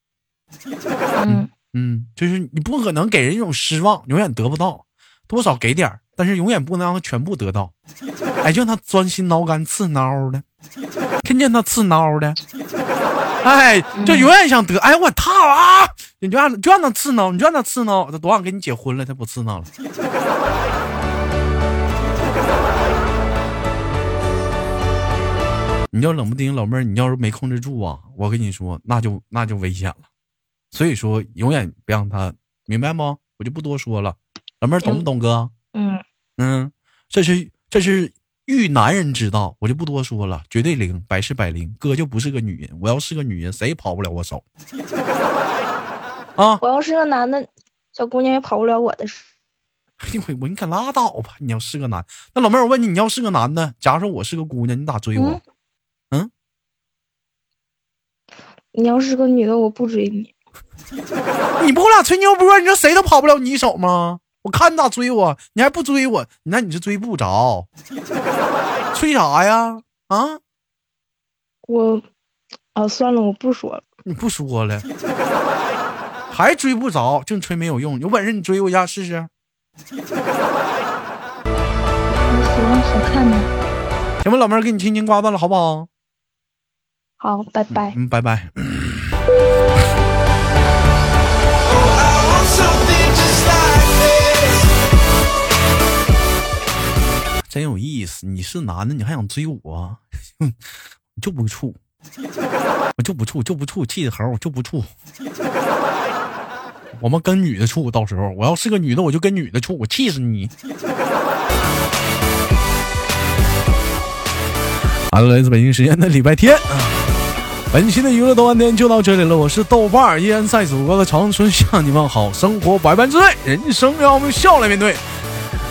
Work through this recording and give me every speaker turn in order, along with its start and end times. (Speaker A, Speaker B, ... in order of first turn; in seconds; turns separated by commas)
Speaker A: 1.1-1.5, Speaker B: 1.3-7.7, Speaker B: 8.4-10.4, Speaker B: 11.2-12.4, Speaker B: 13.4-19.7, Speaker A: 13.9-14.3, Speaker B: 25.9-30.1, Speaker B: 30.7-35.5, Speaker A: 35.7-36.0, Speaker B: 36.4-44.4, Speaker A: 46.6-49.3, Speaker B: 50.0-55.4, Speaker A: 55.2-55.4, Speaker A: 58.7-60.3, Speaker B: 61.6-67.7, Speaker B: 68.9-70.4, Speaker A: 71.7-72.1, Speaker A: 72.8-73.8, Speaker B: 74.0-74.9, Speaker B: 76.3-79.3, Speaker A: 82.3-83.5, Speaker B: 84.2-85.9, Speaker A: 87.2-88.0, Speaker B: 87.7-89.2, Speaker C: 91.6-94.7, Speaker B: 97.5-100.6, Speaker B: 101.2-101.8, Speaker B: 103.0-104.9, Speaker B: 106.9-110.5, Speaker B: 115.1-117.0, Speaker B: 117.7-125.0